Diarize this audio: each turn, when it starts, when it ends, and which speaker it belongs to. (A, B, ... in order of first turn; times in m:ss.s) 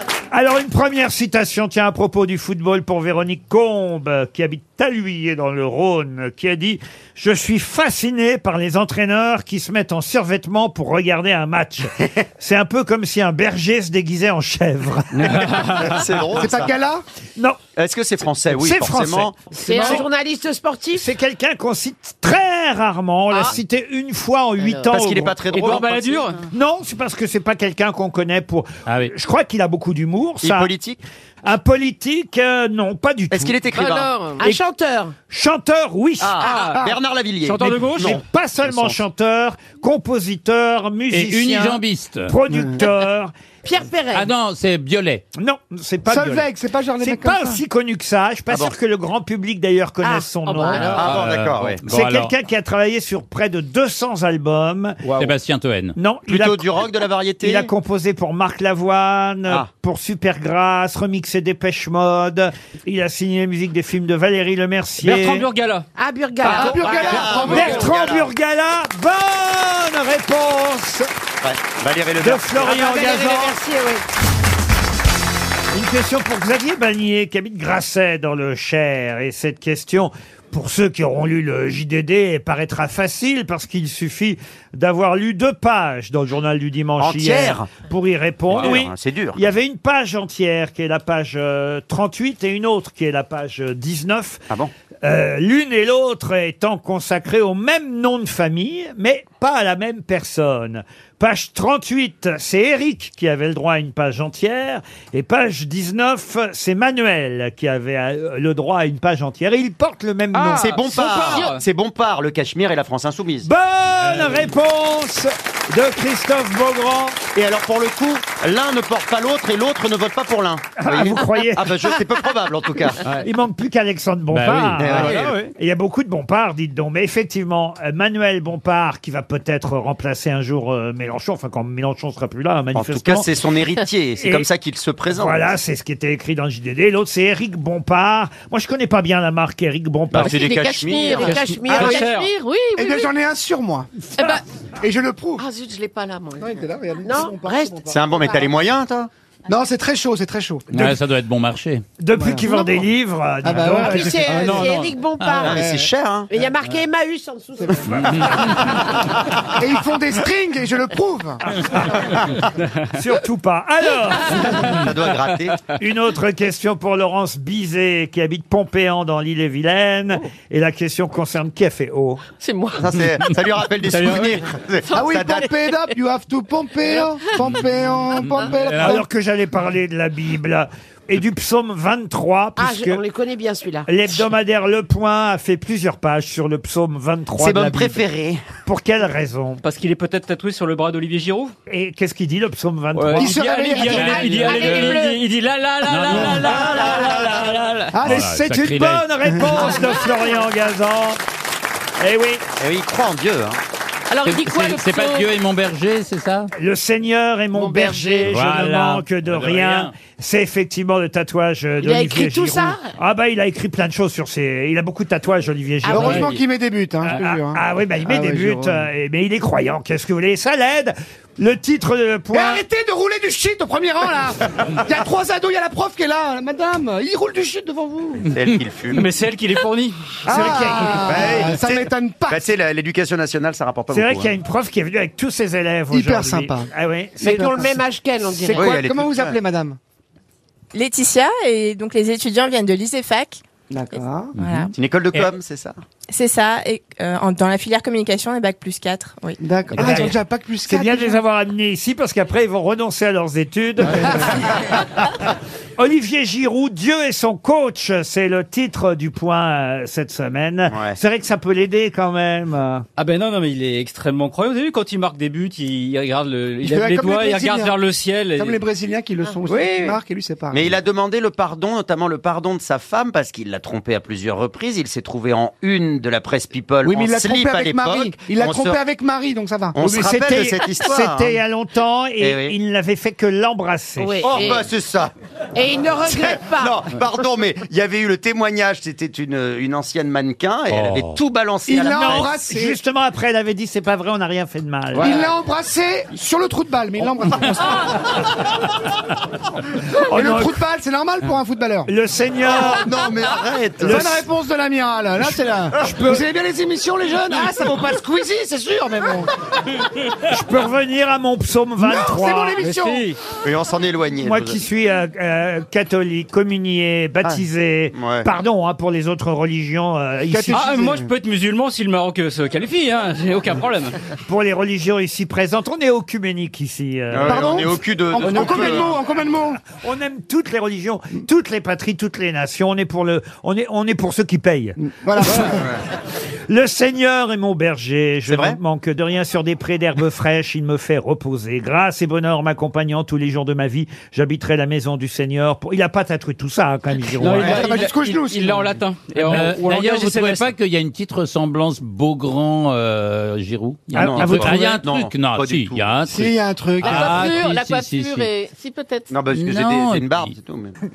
0:00.3-0:15.7 A
0:15.2-0:16.0 B
0:15.8-0:16.8 C
0:16.4-0:17.0 D
0:17.8-0:20.0 C
0:18.5-0:20.0 A
0:19.5-0:21.1 E
0:21.0-0:25.4 A
0:24.9-0:26.2 C
0:25.5-0:26.4 B
0:26.5-0:30.7 A
0:28.9-0:29.1 F
0:30.4-0:31.0 C
0:31.4-0:33.6 A
0:33.3-0:34.2 C
0:33.7-0:34.4 G
0:34.4-0:35.2 E
0:35.3-0:36.4 A
0:36.2-0:39.0 C
0:36.4-0:36.8 B
0:37.4-0:38.2 B
0:38.0-0:43.3 A
0:41.1-0:42.3 F
0:42.5-0:42.8 D
0:43.6-0:44.3 E
0:44.1-0:45.2 F
0:45.4-0:46.5 A
0:46.1-0:47.6 D
0:47.0-0:51.1 A
0:50.5-0:51.2 G
0:50.9-0:51.8 C
0:51.0-0:52.3 F
0:51.9-0:55.0 A
0:55.0-0:55.3 B
0:55.2-0:56.0 F
0:56.0-0:56.8 A
0:56.3-0:57.7 C
0:57.4-1:05.5 A
1:05.0-1:05.9 B
1:06.0-1:07.3 E
1:06.4-1:07.6 B
1:06.5-1:07.9 D
1:06.8-1:08.3 C
1:07.4-1:11.1 A
1:11.4-1:13.2 C
1:12.2-1:13.6 A
1:12.6-1:14.0 E
1:15.7-1:34.4 A
1:27.0-1:27.7 C
1:28.6-1:29.4 C
1:35.0-1:50.7 A
1:50.3-1:51.6 B
1:50.5-1:53.5 C
1:51.2-1:51.5 G
1:53.4-1:57.2 A
1:57.4-2:03.0 C
2:00.8-2:01.8 A
2:03.2-2:13.3 A
2:04.3-2:05.3 F
2:04.8-2:05.3 C
2:05.0-2:05.5 B
2:12.7-2:15.5 C
2:14.2-2:14.5 A
2:15.1-2:20.4 A
2:20.1-2:21.3 C
2:20.2-2:23.1 G
2:20.9-2:22.2 E
2:21.2-2:22.3 B
2:22.8-2:23.9 D
2:24.2-2:24.4 G
2:24.8-2:25.4 D
2:25.4-2:26.6 G
2:26.4-2:28.3 D
2:27.0-2:28.4 E
2:27.9-2:29.1 C
2:29.5-2:30.9 D
2:30.7-2:31.8 F
2:32.0-2:34.5 A
2:32.2-2:32.7 D
2:33.4-2:34.7 D
2:33.7-2:35.6 E
2:34.3-2:34.9 B
2:35.4-2:36.3 C
2:35.5-2:35.9 D
2:36.3-2:38.8 E
2:37.9-2:38.8 F
2:39.6-2:41.4 D
2:41.7-2:42.2 A
2:42.9-2:44.8 A
2:44.7-2:45.6 C
2:45.8-2:52.2 A
2:52.4-2:52.9 G
2:52.8-2:55.5 C
2:53.9-2:54.5 B
2:54.8-2:56.0 G
2:54.9-2:59.0 D
2:56.9-2:57.4 G
2:58.8-3:03.0 A
3:02.6-3:03.9 E
3:03.9-3:08.0 A
3:07.4-3:08.4 C
3:08.6-3:09.6 A
3:09.6-3:11.5 B
3:11.7-3:13.4 A
3:13.0-3:17.6 B
3:13.1-3:14.4 D
3:13.9-3:15.0 F
3:14.3-3:15.2 G
3:15.9-3:16.6 F
3:16.1-3:16.4 D
3:16.4-3:17.6 C
3:17.2-3:21.2 A
3:17.9-3:18.3 D
3:18.0-3:19.1 F
3:19.3-3:19.7 D
3:22.0-3:22.4 A
3:22.6-3:23.6 C
3:24.1-3:25.3 G
3:24.2-3:26.5 F
3:26.6-3:36.3 A
3:27.5-3:28.3 G
3:28.3-3:29.9 F
3:31.8-3:32.9 E
3:35.9-3:36.2 E
3:35.9-3:38.8 D
3:37.0-3:42.6 A
3:42.3-3:48.3 D
3:48.3-3:49.1 C
3:48.9-3:50.6 B
3:50.3-3:52.4 D
3:50.3-3:51.0 A
3:51.0-3:54.3 C
3:53.9-3:57.7 A
3:55.9-3:56.7 D
3:57.2-3:58.7 E
3:57.2-3:57.7 D
3:58.4-3:58.8 A
3:58.5-3:59.4 C
3:58.6-3:59.8 D
4:00.7-4:04.7 H
4:03.7-4:04.4 D
4:04.4-4:05.3 F
4:04.7-4:05.8 C
4:06.1-4:10.0 H
4:09.4-4:11.2 D
4:09.8-4:15.0 A
4:15.8-4:22.9 A
4:20.7-4:21.0 C
4:23.0-4:28.6 B
4:26.6-4:27.8 D
4:28.4-4:30.7 D
4:29.5-4:30.0 C
4:30.5-4:38.8 C
4:36.8-4:39.8 D
4:39.7-4:41.4 C
4:39.8-4:44.4 A
4:42.2-4:42.6 C
4:44.0-4:44.7 E
4:44.2-4:45.1 C
4:45.6-4:47.0 E
4:46.0-4:52.4 C
4:50.7-4:51.2 F
4:51.7-4:52.8 D
4:52.0-4:55.1 A
4:55.0-4:55.3 B
4:55.0-4:57.7 D
5:00.0-5:01.9 D
5:00.1-5:00.6 A
5:01.9-5:02.9 A
5:02.6-5:04.2 C
5:03.8-5:04.2 A
5:03.8-5:09.3 D
5:05.8-5:06.2 A
5:10.3-5:12.6 A
5:11.8-5:13.1 D
5:12.6-5:13.2 B
5:13.4-5:14.6 C
5:14.2-5:20.8 A
5:17.9-5:18.3 C
5:20.3-5:21.1 D
5:20.5-5:24.0 B
5:24.3-5:27.6 A
5:27.1-5:29.0 C
5:27.2-5:29.6 D
5:29.7-5:34.8 A
5:34.8-5:35.7 D
5:35.5-5:35.7 C
5:36.5-5:47.7 A
5:38.3-5:38.6 C
5:47.2-5:50.6 B
5:47.3-5:48.7 D
5:49.2-5:58.3 F
5:53.9-5:54.8 A
5:53.9-5:56.0 C
5:56.1-5:57.2 D
5:56.8-5:59.2 G
5:59.1-6:00.8 C
5:59.3-6:00.3 F